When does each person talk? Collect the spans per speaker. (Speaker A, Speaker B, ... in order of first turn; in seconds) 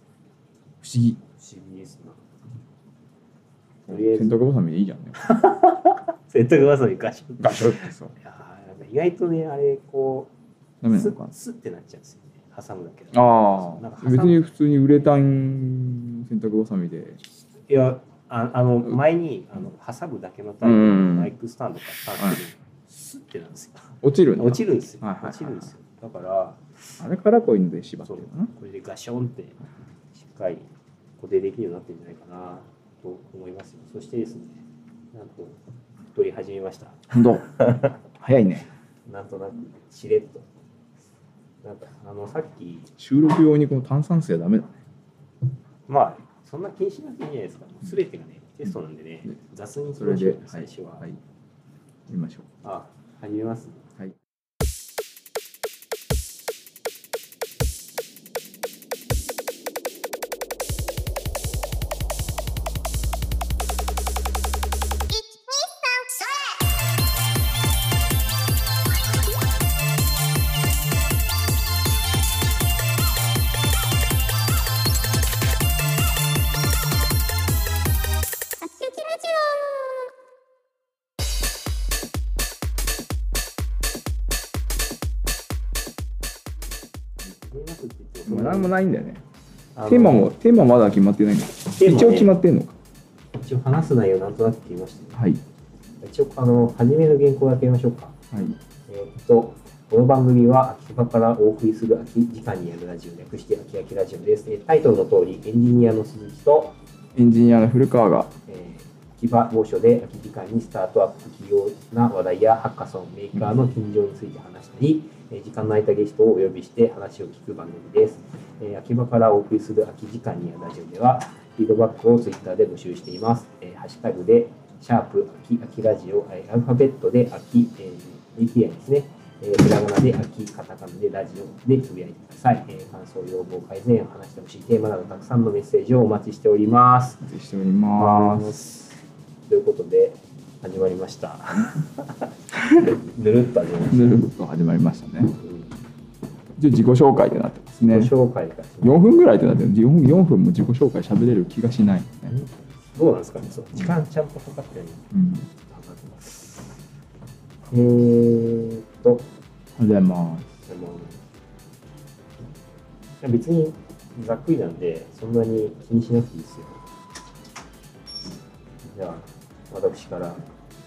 Speaker A: 0.8-1.2, 3.9-5.2, 7.4-8.1, 10.8-11.3, 13.1-17.2, 20.6-21.3, 24.0-25.7, 27.0-28.5, 37.1-37.4, 38.2-38.7, 43.0-44.8, 50.0-51.2, 52.1-52.5, 88.2-89.2, 89.9-92.8, 95.2-95.4, 98.3-98.6, 107.1-108.3, 137.2-138.9, 143.9-145.4, 146.6-148.1, 148.8-152.3, 155.1-155.4, 159.8-160.5
Speaker B: 1.4-2.2, 3.9-4.4, 5.2-10.3, 10.9-14.4, 17.7-26.6, 28.1-29.6, 30.1-30.7, 31.2-38.0, 39.0-40.5, 41.6-42.9, 45.9-51.1, 52.6-53.8, 87.4-88.8, 89.8-90.3, 91.8-92.3, 93.4-95.2, 96.0-98.2, 98.9-106.8, 108.5-137.2, 137.9-138.7, 139.5-144.2, 145.4-145.7, 147.9-149.0, 152.3-156.6, 157.7-159.3, 160.7-161.2, 163.2-166.8, 168.8-170.4